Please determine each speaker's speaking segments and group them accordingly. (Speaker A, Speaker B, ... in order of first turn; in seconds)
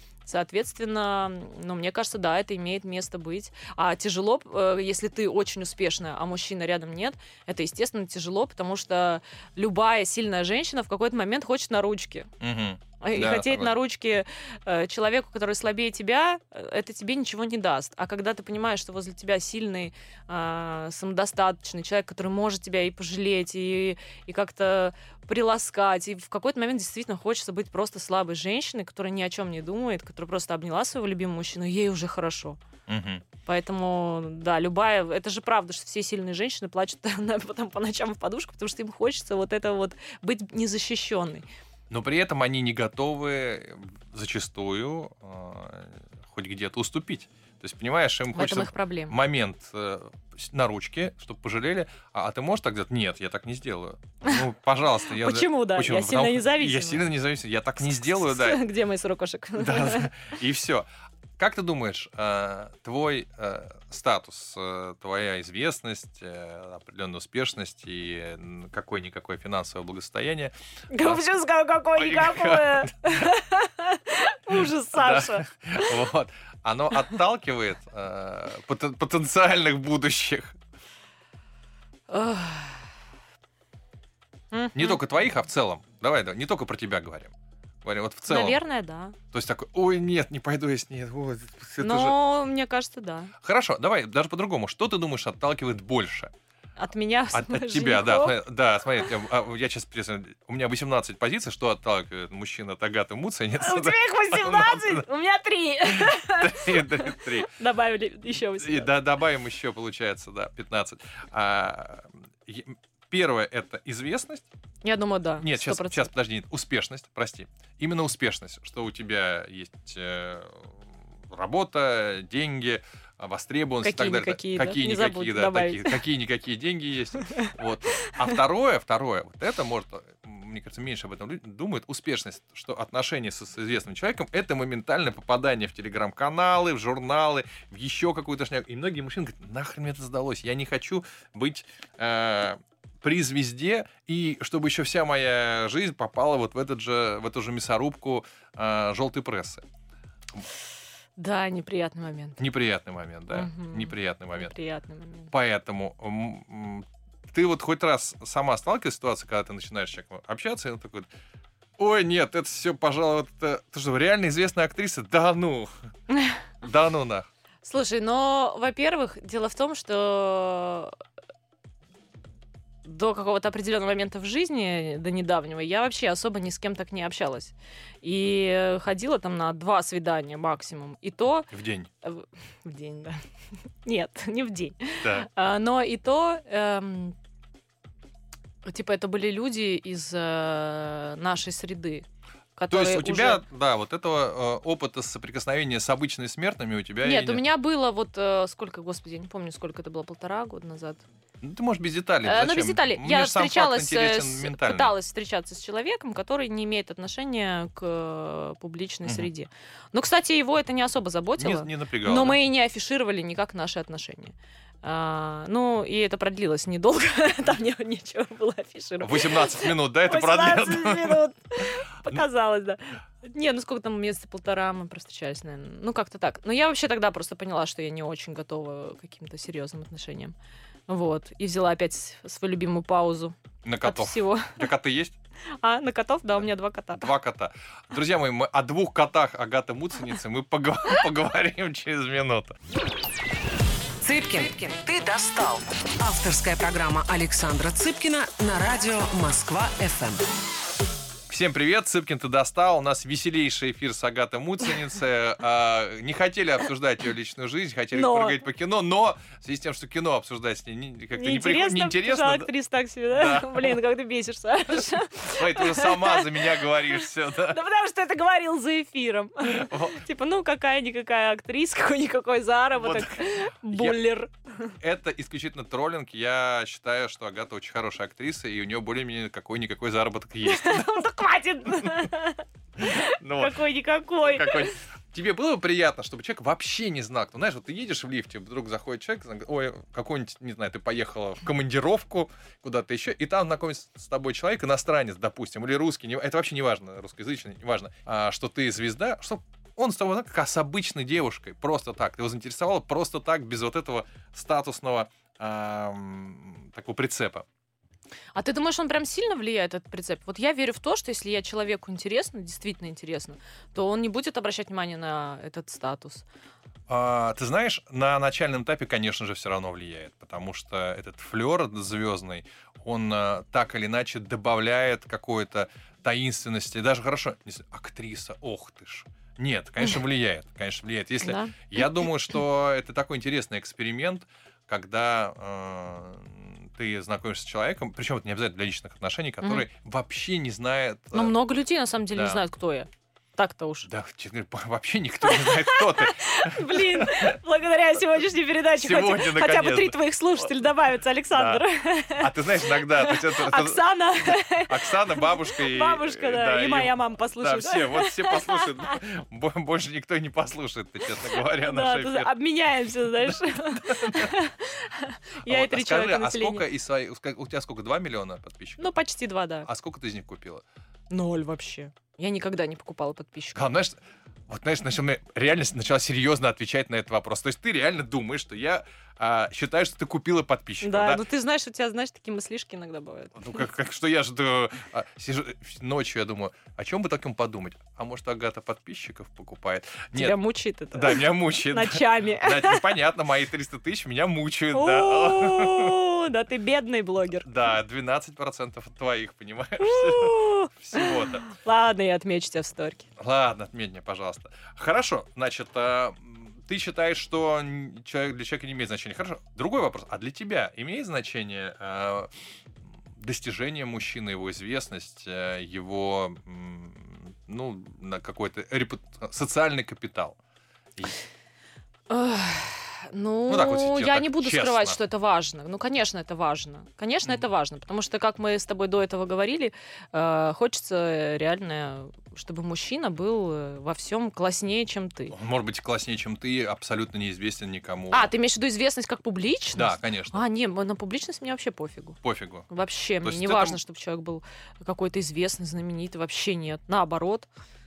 Speaker A: 0.3-12.3, 13.0-32.6, 33.5-41.5, 48.3-49.2, 55.1-57.1, 58.0-60.1, 70.9-75.9, 82.1-82.8, 84.5-85.0, 88.3-89.2, 91.8-93.3, 96.8-98.4, 103.6-108.9, 114.8-116.1, 123.8-126.0, 127.3-128.2, 151.2-152.4, 153.3-155.3, 166.1-166.4, 167.6-170.9, 172.8-181.5, 182.0-183.2, 183.8-187.2, 188.7-192.1, 192.6-193.4, 197.0-201.0, 202.2-230.3, 230.9-234.7, 235.6-237.1, 257.9-258.4, 261.1-274.7, 280.4-284.8, 308.4-316.2, 331.2-332.1, 341.1-343.9, 345.2-359.0, 361.4-366.6, 368.8-369.7, 371.1-373.6, 380.8-383.6, 390.2-392.8, 394.7-397.5, 399.8-403.1, 422.1-435.4, 438.1-442.2, 442.7-447.5
Speaker B: 12.4-13.7, 32.9-33.2, 41.9-58.6, 59.6-60.9, 61.4-71.2, 72.0-73.3, 74.6-80.6, 84.7-87.3, 87.8-88.6, 89.3-92.2, 93.4-96.3, 97.3-105.0, 105.9-107.5, 108.6-114.5, 115.4-120.8, 121.3-149.7, 152.4-154.5, 155.3-161.1, 161.8-165.7, 166.6-167.3, 181.5-181.9, 185.0-185.3, 192.7-197.4, 201.4-204.9, 211.4-212.4, 219.0-221.2, 233.6-235.2, 236.9-242.6, 251.3-262.5, 263.1-263.8, 265.2-267.6, 269.4-270.0, 272.8-274.0, 274.8-281.1, 281.8-282.1, 282.8-283.6, 284.2-307.5, 316.9-341.4, 342.1-342.4, 343.9-347.4, 348.8-350.0, 351.3-351.6, 352.2-362.3, 363.2-364.3, 365.4-368.9, 369.6-370.6, 373.6-381.2, 383.4-390.4, 390.9-396.0, 397.4-401.5, 403.2-412.3, 413.1-420.4, 423.5-425.0, 435.3-438.3, 439.8-440.4, 442.2-442.7, 443.2-443.8
Speaker C: 244.0-250.2